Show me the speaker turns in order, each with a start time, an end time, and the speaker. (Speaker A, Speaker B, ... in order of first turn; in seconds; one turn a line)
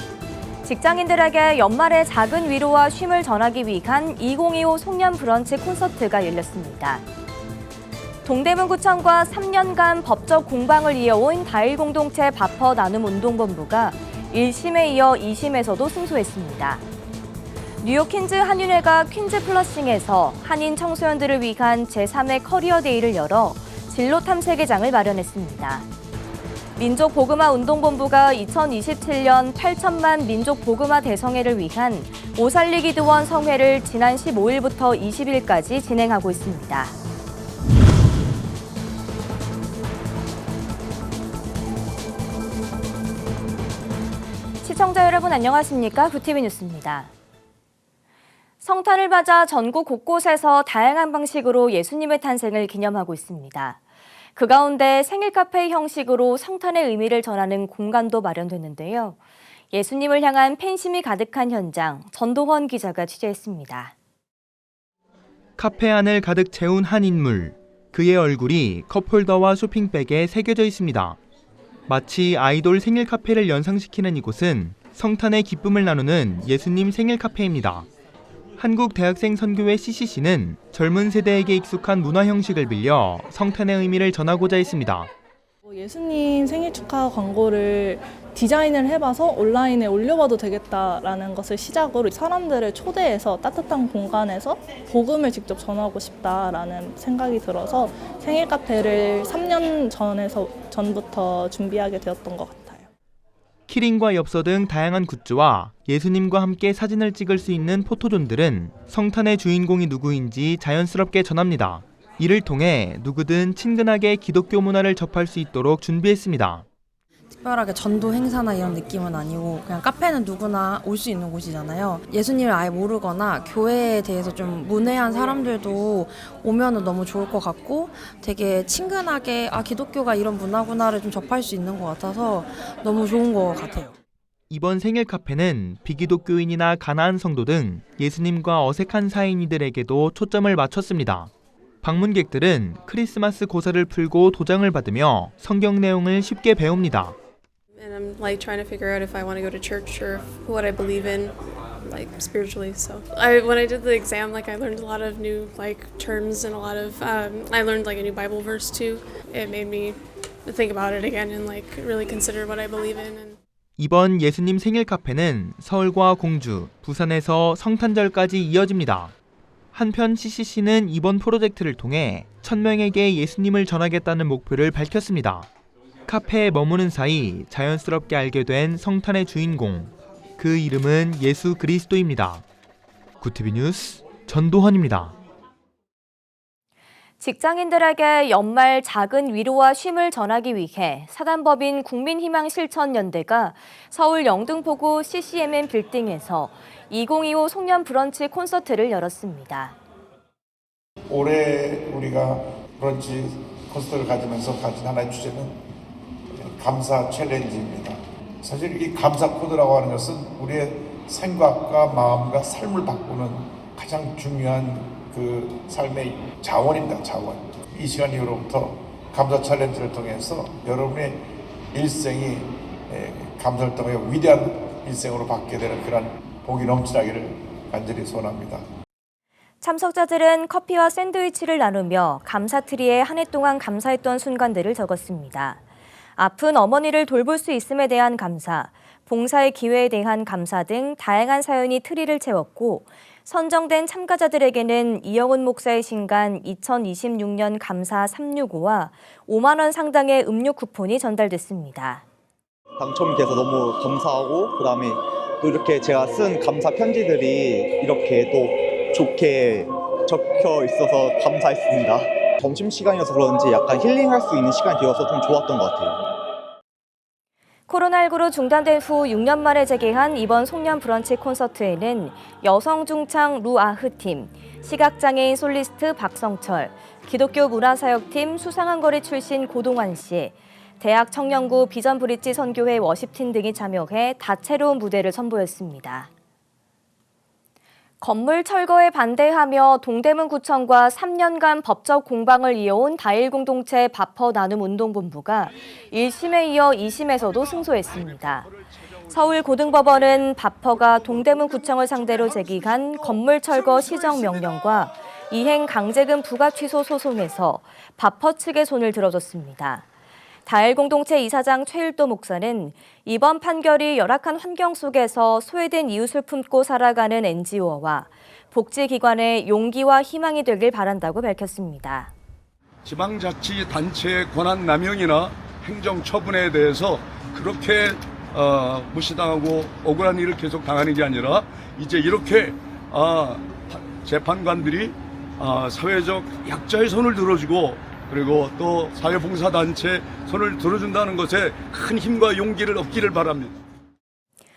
Speaker A: 0.6-7.0
Speaker A: 8.2-16.8
Speaker A: 17.8-25.9
Speaker A: 26.8-36.9
Speaker A: 44.6-47.1
Speaker A: 48.6-53.8
Speaker A: 54.4-59.2
Speaker A: 59.7-63.9
Speaker B: 65.6-71.2
Speaker B: 71.9-77.9
Speaker B: 78.6-85.1
Speaker C: 85.7-102.9
Speaker B: 103.7-116.6
Speaker D: 117.3-133.9
Speaker B: 134.5-147.2
Speaker E: 147.7-163.4
Speaker B: 163.8-169.2
Speaker B: 169.7-175.5
Speaker B: 176.1-182.4
Speaker B: 183.2-185.2
Speaker A: 187.2-199.8
Speaker F: 201.1-205.6
Speaker F: 206.3-228.6
Speaker A: 229.6-235.6
Speaker A: 236.2-252.0
Speaker G: 252.8-266.0
Speaker A: 267.7-286.1
Speaker A: 288.0-298.5
Speaker A: 299.1-309.9
Speaker A: 310.4-322.1
Speaker H: 322.8-343.6